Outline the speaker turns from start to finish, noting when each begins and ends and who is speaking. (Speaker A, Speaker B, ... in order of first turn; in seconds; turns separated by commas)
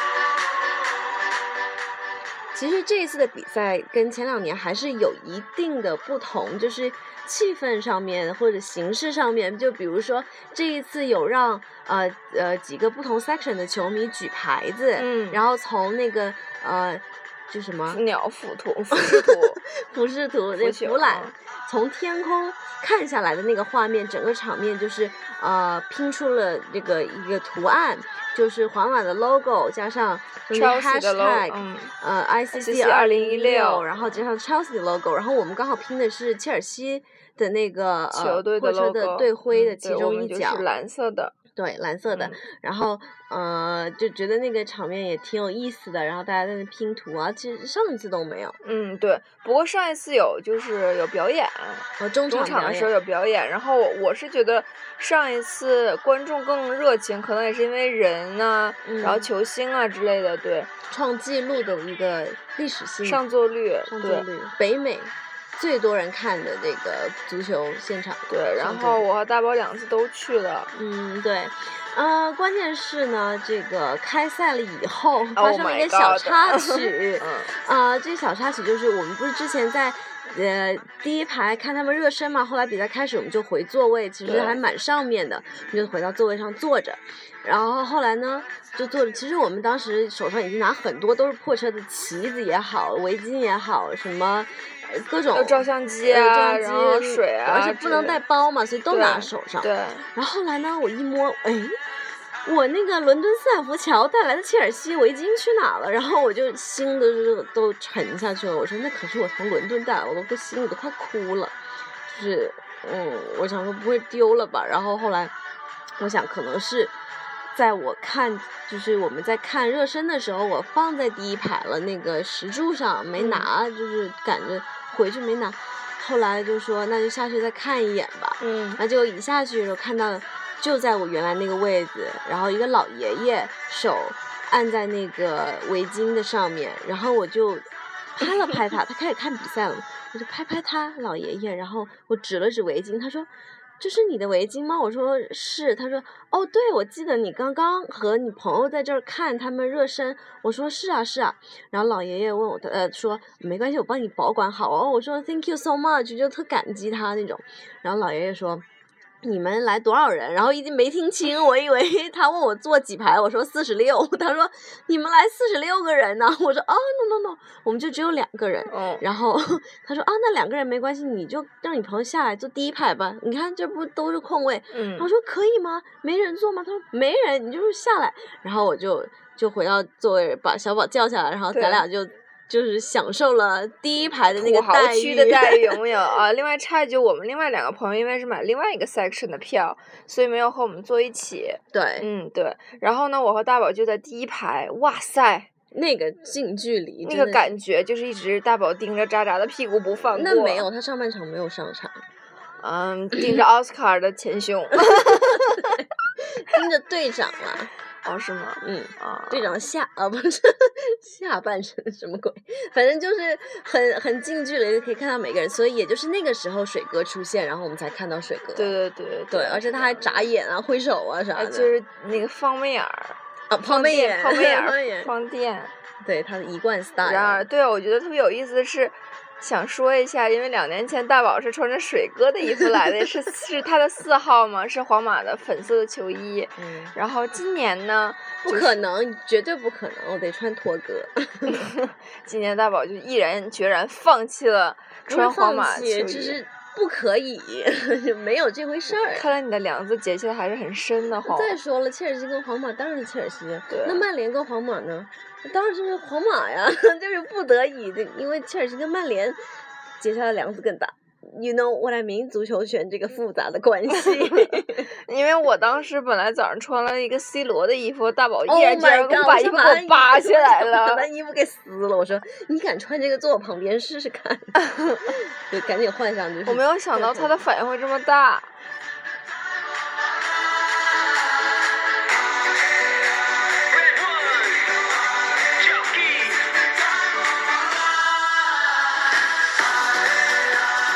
Speaker A: 2.5-18.0, Speaker B: 15.0-15.4, Speaker B: 17.9-19.6, Speaker A: 18.9-40.6, Speaker B: 20.6-21.3, Speaker B: 30.5-31.9, Speaker B: 32.5-34.2, Speaker B: 38.1-41.4, Speaker A: 41.5-48.6, Speaker B: 42.1-42.4, Speaker B: 48.6-60.7, Speaker A: 52.0-52.9, Speaker A: 58.9-59.3, Speaker A: 60.9-63.2, Speaker B: 63.0-64.3, Speaker A: 63.9-69.1, Speaker B: 68.3-70.7, Speaker A: 70.7-101.8, Speaker B: 75.4-77.5, Speaker B: 84.3-84.6, Speaker B: 95.3-98.2, Speaker B: 98.9-100.1, Speaker A: 102.5-115.3, Speaker A: 116.0-117.0, Speaker A: 117.5-143.3, Speaker B: 123.2-123.5, Speaker B: 128.4-128.8, Speaker A: 143.8-158.6, Speaker A: 159.2-185.8, Speaker B: 168.7-169.0, Speaker B: 174.7-175.1, Speaker B: 181.5-181.8, Speaker B: 184.3-195.5, Speaker A: 191.7-192.1, Speaker A: 195.7-197.5, Speaker B: 197.1-200.7, Speaker A: 200.1-202.0, Speaker B: 202.6-205.7, Speaker A: 204.8-207.7, Speaker B: 208.1-209.5, Speaker A: 208.6-218.8, Speaker B: 218.6-220.3, Speaker A: 219.3-221.7, Speaker B: 221.3-225.7, Speaker A: 223.5-225.1, Speaker A: 226.0-227.5, Speaker B: 227.0-238.8, Speaker A: 236.6-236.9, Speaker A: 238.4-241.7, Speaker B: 241.5-246.4, Speaker A: 245.1-249.3, Speaker B: 249.0-251.6, Speaker A: 251.2-259.4, Speaker B: 253.7-254.1, Speaker A: 260.0-264.9, Speaker B: 264.0-271.1, Speaker A: 268.5-274.6, Speaker B: 274.7-275.0, Speaker A: 275.1-277.3, Speaker B: 276.5-278.5, Speaker C: 283.7-284.7, Speaker C: 285.6-286.6